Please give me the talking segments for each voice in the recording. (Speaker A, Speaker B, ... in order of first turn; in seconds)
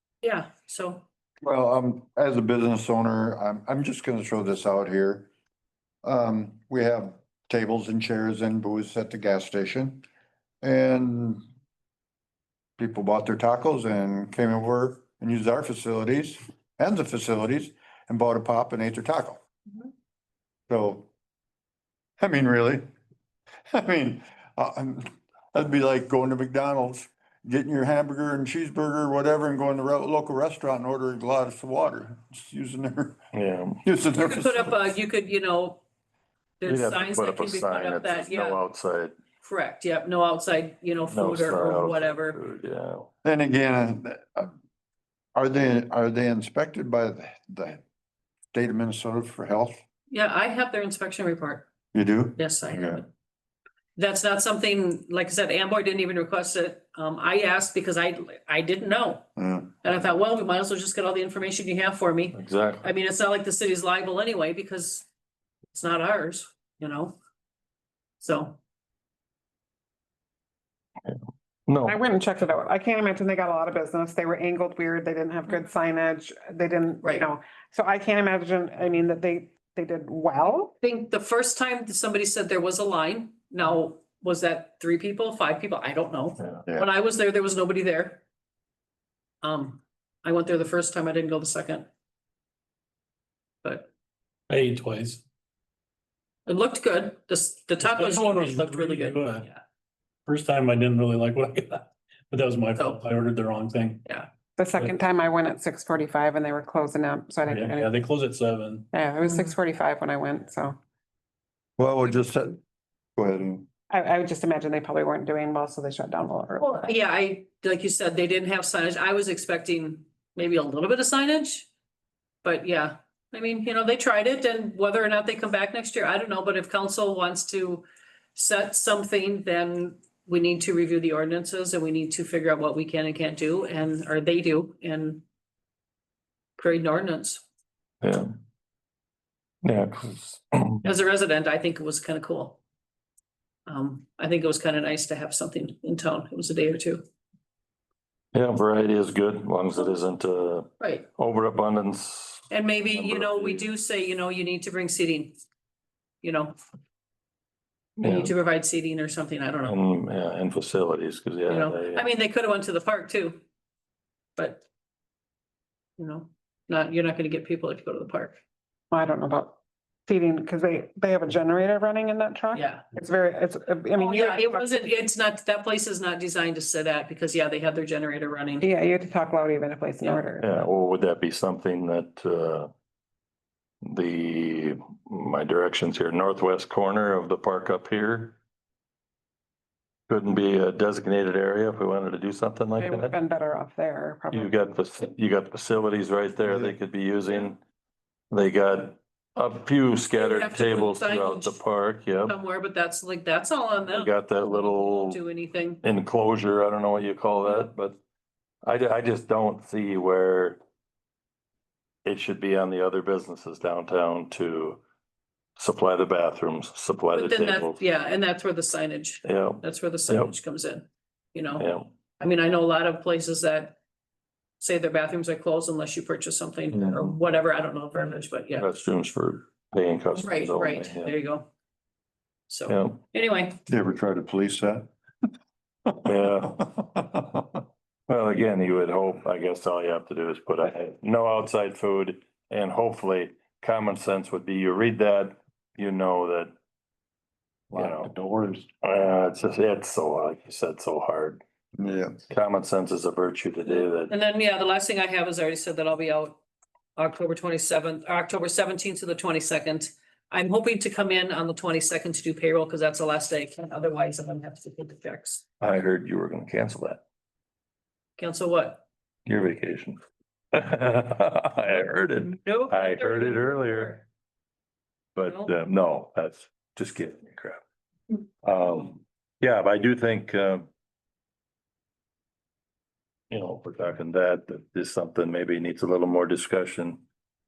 Speaker A: 0.2-1.0, 34.2-35.8, 36.6-38.6, 39.4-42.4, 50.1-51.6, 52.4-53.1, 54.0-59.2, 59.8-65.0, 65.7-67.2, 68.2-68.6, 80.8-88.2, 89.4-91.9, 93.6-93.9, 96.5-99.6, 116.6-121.7, 122.4-135.2, 136.6-137.4, 140.8-142.6, 143.7-147.0, 150.8-151.1, 152.5-155.4, 156.2-156.6, 158.0-159.8, 161.5-163.4, 164.4-164.6, 166.0-168.4, 172.5-172.8, 173.9-178.7, 200.2-201.6, 202.2-205.8, 217.1-221.7, 222.2-223.8, 224.6-228.7, 230.2-231.5, 232.5-233.6, 253.7-256.4, 256.9-265.4, 268.2-268.8, 272.2-274.0, 275.2-275.5
Speaker B: 1.4-5.3, 6.0-10.0, 10.6-11.4, 12.8-19.4, 20.7-21.1, 22.2-22.8, 23.7-33.2, 33.8-34.8, 43.2-44.5, 45.3-47.8, 48.5-49.8, 51.9-53.0, 59.4-59.7, 111.8-112.6, 113.2-113.7, 196.5-196.7, 233.7-234.9, 235.9-237.4, 247.7-248.7, 251.8-252.2
Speaker C: 33.3-33.8, 36.7-39.1, 41.1-43.1, 62.3-62.9, 71.0-72.0, 138.0-138.3, 139.6-140.8, 148.3-153.6, 158.0-158.3, 159.7-162.1, 180.4-182.7, 183.8-188.4, 190.1-193.2, 194.3-197.6, 198.3-202.3, 203.8-205.2, 205.8-208.0, 208.6-210.6, 212.0-214.8, 215.6-217.8, 219.2-220.3, 221.6-221.9, 226.7-227.1, 228.6-231.2, 232.7-233.0, 236.0-236.7, 238.1-246.5, 247.7-248.1, 248.8-251.4, 252.3-254.1, 265.6-267.0, 269.2-270.0, 270.5-274.0, 275.1-277.6, 278.4-280.7, 283.3-287.0
Speaker D: 71.8-80.7, 104.6-107.9, 108.9-110.8, 113.9-116.9, 168.9-174.8, 178.6-180.7, 192.8-194.6
Speaker E: 94.5-95.2, 97.8-99.5, 100.2-104.0, 107.5-108.9